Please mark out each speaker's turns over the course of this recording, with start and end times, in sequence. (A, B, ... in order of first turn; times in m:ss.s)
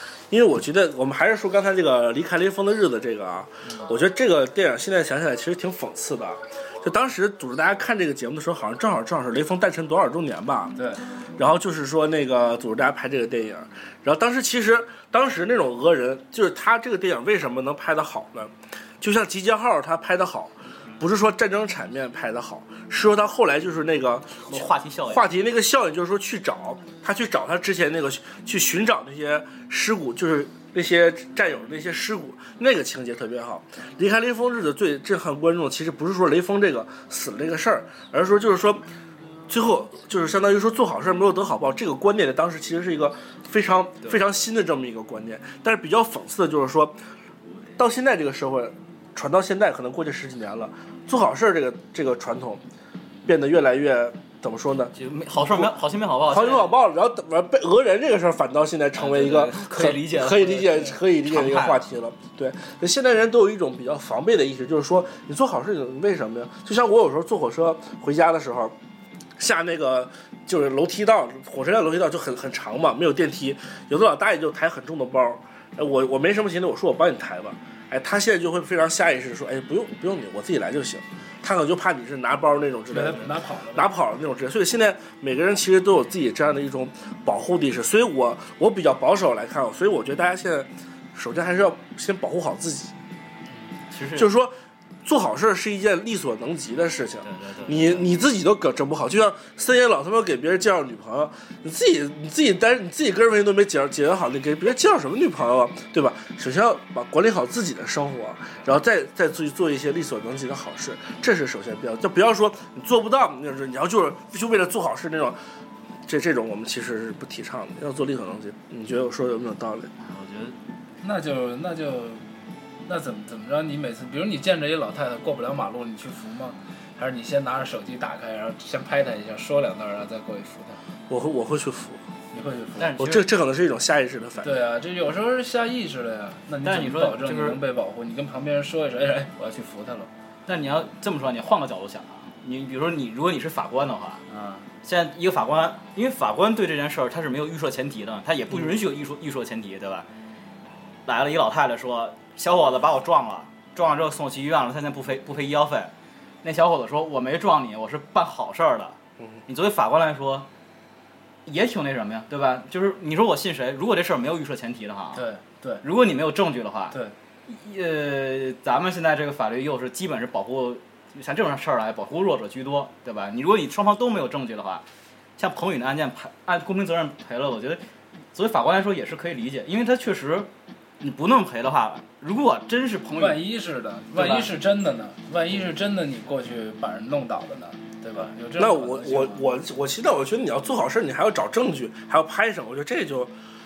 0:00.3-0:10.8 A
0:10.8-0:11.0 B
0:11.4-0:38.8 A
0:24.5-0:25.3 C
0:39.5-0:47.0 A
0:47.8-0:52.6 A
0:53.3-0:55.7 A
0:55.0-0:56.8 C
0:56.3-1:08.8 A
0:59.0-1:01.9 C
1:09.4-1:32.9 A
1:22.9-1:23.9 B
1:33.9-1:34.3 C
1:34.2-1:55.4 A
1:37.2-1:38.1 C
1:56.1-1:59.9 A
2:00.0-2:00.6 C
2:01.0-2:02.3 B
2:02.9-2:10.8 B
2:11.1-2:12.0 A
2:12.3-2:12.9 B
2:12.8-2:13.3 C
2:13.0-2:14.6 A
2:14.4-2:20.1 B
2:16.6-2:17.6 C
2:20.5-2:24.2 C
2:24.3-2:24.7 B
2:24.8-2:30.1 C
2:31.1-2:35.9 C
2:36.4-2:40.5 C
2:41.5-2:45.2 C
2:45.1-2:45.8 B
2:45.8-2:54.8 C
2:55.4-2:57.8 C
2:58.3-3:00.5 C
3:01.0-3:03.4 C
3:03.2-3:09.5 B
3:04.1-3:04.5 C
3:08.6-3:13.3 A